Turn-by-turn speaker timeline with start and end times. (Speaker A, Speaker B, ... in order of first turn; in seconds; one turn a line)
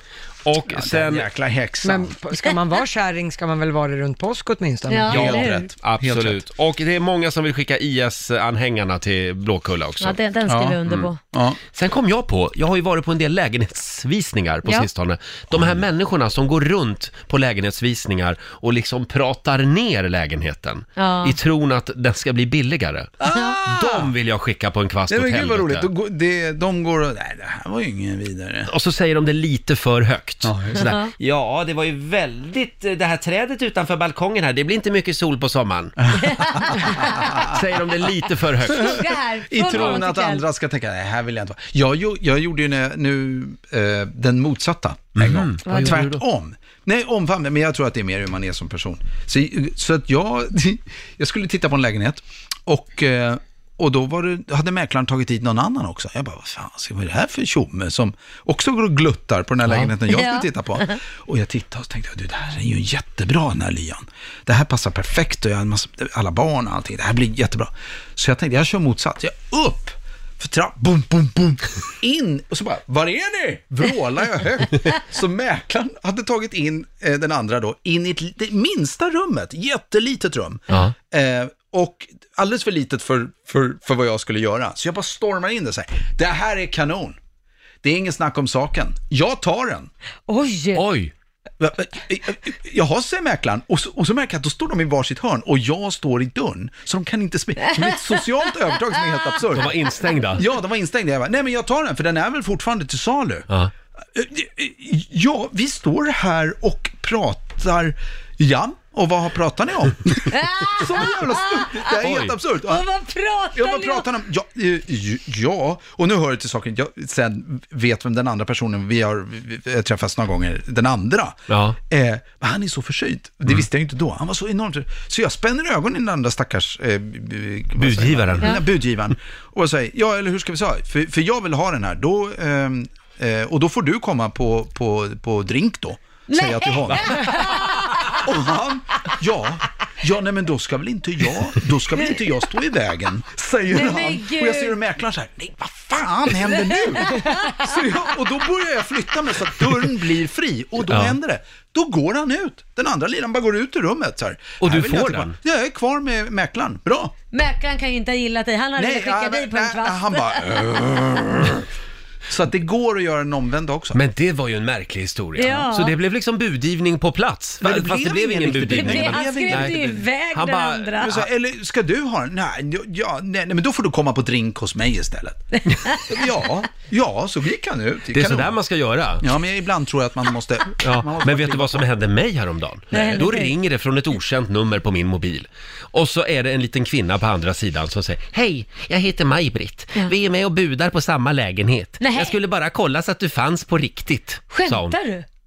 Speaker A: 0.4-1.3
Speaker B: 0.7-2.1
Speaker C: 1.8-5.3
Speaker D: 4.9-5.7
Speaker B: 5.1-6.4
Speaker A: 5.1-10.2
Speaker D: 10.0-11.2
Speaker B: 10.4-11.6
Speaker A: 11.7-23.1
Speaker B: 15.5-15.8
Speaker D: 21.0-21.4
Speaker B: 23.2-24.1
Speaker A: 23.6-25.9
Speaker B: 25.1-28.7
Speaker A: 28.7-36.1
Speaker B: 30.4-30.8
Speaker D: 30.8-31.1
Speaker B: 36.2-37.2
Speaker D: 36.2-37.5
Speaker A: 37.4-39.0
Speaker D: 38.6-40.4
Speaker B: 38.7-87.2
Speaker A: 39.7-39.9
Speaker A: 45.1-46.2
Speaker D: 45.7-46.1
Speaker A: 59.6-59.9
Speaker D: 60.1-60.9
Speaker B: 87.8-89.9
Speaker D: 90.3-90.8
Speaker A: 90.7-91.1
Speaker B: 91.6-103.5
Speaker A: 99.5-100.4
Speaker B: 104.1-112.9
Speaker D: 110.3-111.9
Speaker A: 112.0-112.3
Speaker D: 112.6-114.0
Speaker B: 113.5-137.6
Speaker A: 121.5-121.8
Speaker A: 127.8-128.6
Speaker D: 136.3-138.2
Speaker B: 138.1-157.2
Speaker D: 143.7-144.7
Speaker D: 146.9-147.7
Speaker A: 150.9-151.2
Speaker A: 154.6-155.3
Speaker D: 157.3-160.7
Speaker B: 158.8-161.7
Speaker B: 162.3-164.0
Speaker A: 163.9-171.1
Speaker D: 165.4-165.9
Speaker B: 167.6-170.0
Speaker D: 168.7-171.2
Speaker B: 171.0-178.6
Speaker D: 175.7-176.0
Speaker A: 178.1-179.3
Speaker B: 179.2-181.9
Speaker A: 180.8-194.9
Speaker D: 182.9-183.5
Speaker D: 192.0-192.3
Speaker D: 194.5-195.2